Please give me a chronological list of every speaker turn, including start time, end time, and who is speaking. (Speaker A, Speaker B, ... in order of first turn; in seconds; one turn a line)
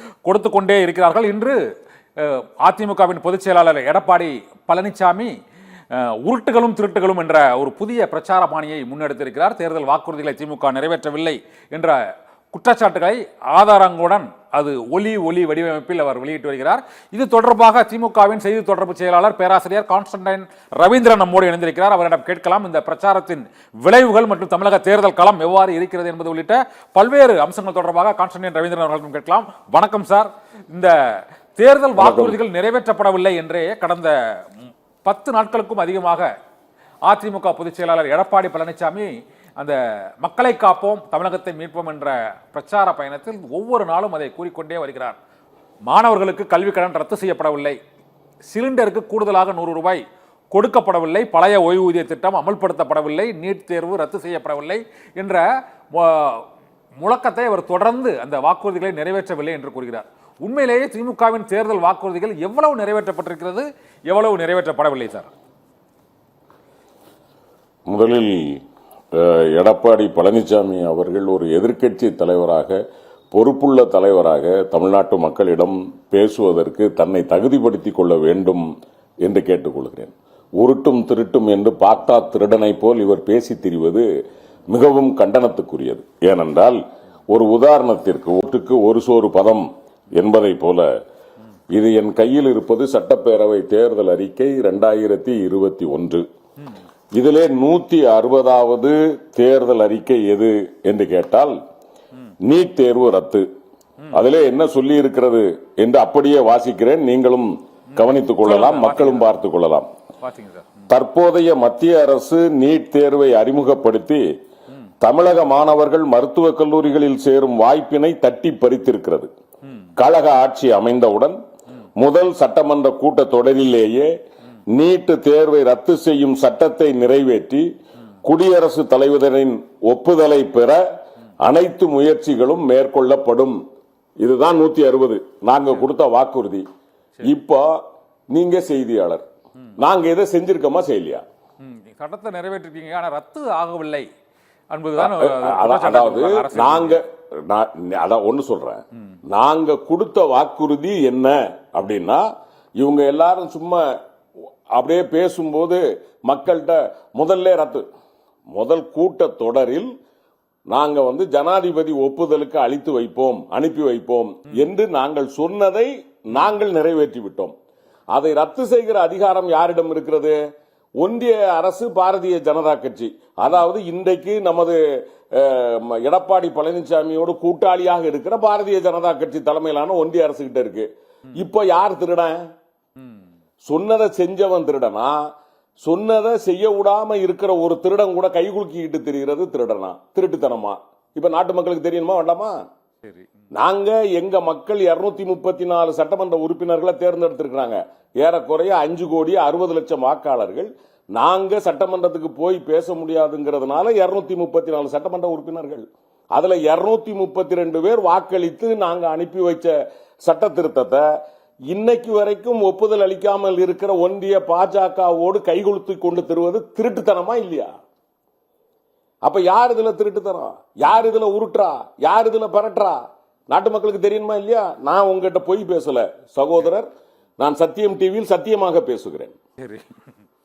Speaker A: 0.3-1.6
Speaker A: 2.2-5.3
Speaker A: 5.9-12.0
Speaker A: 12.5-36.3
Speaker B: 32.0-32.4
Speaker A: 37.1-45.2
Speaker A: 45.9-47.8
Speaker A: 48.5-50.0
Speaker A: 50.5-56.5
Speaker A: 57.0-65.3
Speaker B: 67.9-68.6
Speaker B: 69.1-72.8
Speaker B: 73.3-78.7
Speaker B: 79.2-84.1
Speaker B: 84.7-90.9
Speaker B: 91.7-96.2
Speaker B: 97.2-101.6
Speaker B: 102.4-103.5
Speaker B: 104.1-109.9
Speaker A: 108.0-109.3
Speaker A: 110.2-110.9
Speaker B: 110.9-114.2
Speaker B: 115.0-119.3
Speaker B: 120.0-121.4
Speaker B: 122.0-124.1
Speaker B: 124.7-127.7
Speaker B: 128.2-130.8
Speaker B: 131.4-133.6
Speaker B: 134.2-136.7
Speaker B: 137.2-137.8
Speaker B: 138.3-139.2
Speaker B: 139.8-141.2
Speaker A: 141.6-144.1
Speaker A: 144.7-147.0
Speaker B: 145.0-152.2
Speaker B: 152.8-154.0
Speaker B: 154.8-157.8
Speaker B: 158.5-159.9
Speaker B: 160.7-167.5
Speaker B: 168.1-170.4
Speaker B: 171.0-182.4
Speaker B: 183.7-185.2
Speaker B: 185.8-192.6
Speaker B: 193.6-209.8
Speaker B: 210.3-211.0
Speaker B: 211.7-217.7
Speaker B: 219.2-226.9
Speaker B: 227.4-229.3
Speaker A: 229.6-230.0